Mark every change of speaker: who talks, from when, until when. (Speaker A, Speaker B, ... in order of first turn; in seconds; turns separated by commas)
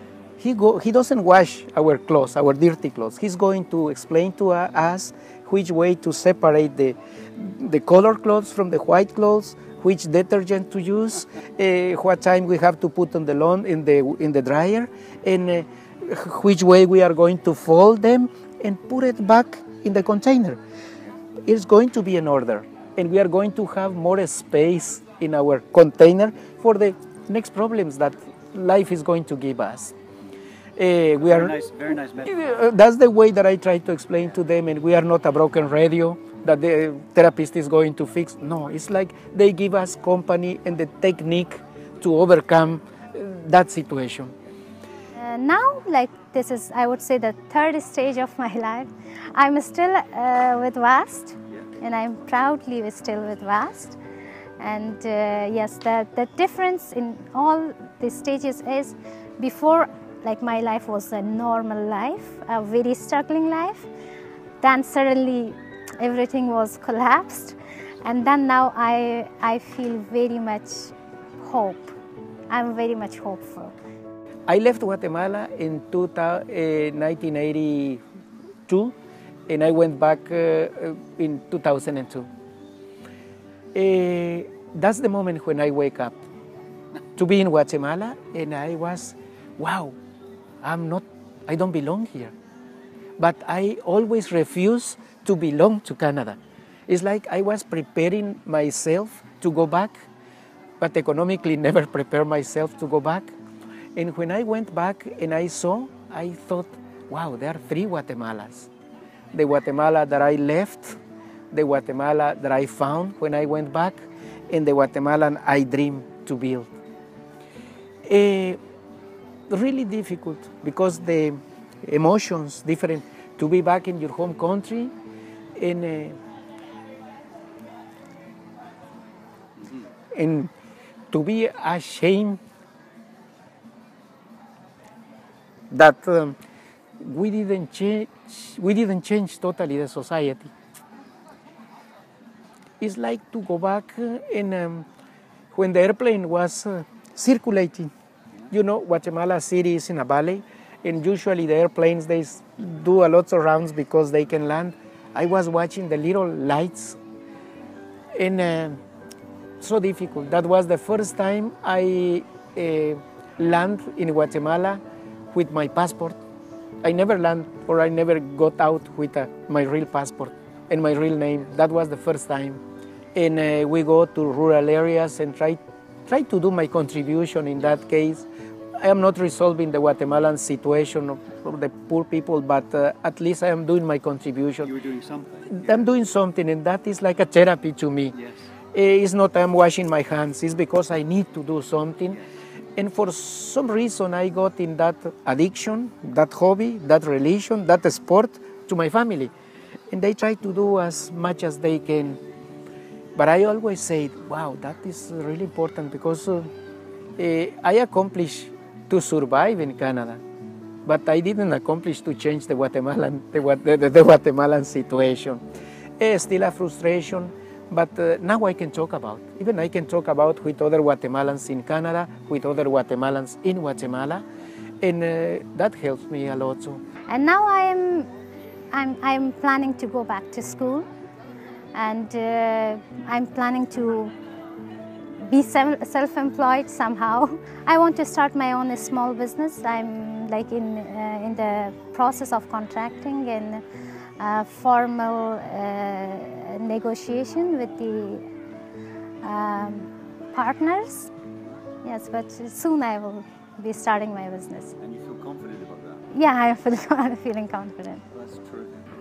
Speaker A: 0.4-20.6, Speaker A: 21.4-29.9, Speaker A: 30.8-31.6, Speaker B: 31.2-32.4, Speaker A: 32.2-44.3, Speaker C: 45.1-54.0, Speaker C: 54.6-63.9, Speaker C: 64.6-71.9, Speaker C: 72.5-73.7, Speaker A: 74.5-78.0, Speaker A: 78.7-78.9, Speaker A: 79.5-82.3, Speaker A: 83.7-86.2, Speaker A: 87.2-90.0, Speaker A: 90.6-92.3, Speaker A: 93.2-100.0, Speaker A: 100.8-103.3, Speaker A: 104.0-108.7, Speaker A: 109.3-111.0, Speaker A: 111.5-116.7, Speaker A: 118.0-118.6, Speaker A: 119.5-124.9, Speaker A: 125.5-126.2, Speaker A: 130.1-130.5, Speaker A: 131.1-132.4, Speaker A: 135.7-136.4, Speaker A: 137.0-140.5, Speaker A: 142.8-144.9, Speaker A: 145.5-147.9, Speaker A: 148.5-157.0, Speaker A: 158.1-158.8, Speaker A: 159.6-164.8, Speaker A: 165.3-166.2, Speaker A: 166.8-172.6, Speaker A: 173.1-178.2, Speaker A: 178.8-184.7, Speaker B: 184.6-185.8, Speaker A: 185.5-188.2, Speaker A: 188.7-192.2, Speaker A: 192.8-199.3, Speaker A: 199.9-202.2, Speaker A: 203.2-206.5, Speaker A: 207.2-210.2, Speaker A: 210.8-215.4, Speaker A: 216.0-224.2, Speaker A: 224.8-226.8, Speaker C: 227.1-228.1, Speaker C: 228.7-230.9, Speaker C: 231.7-234.1, Speaker C: 235.2-243.6, Speaker C: 244.2-248.2, Speaker C: 249.2-251.1, Speaker C: 251.8-254.7, Speaker B: 254.8-256.0, Speaker C: 256.1-258.0, Speaker B: 258.1-258.8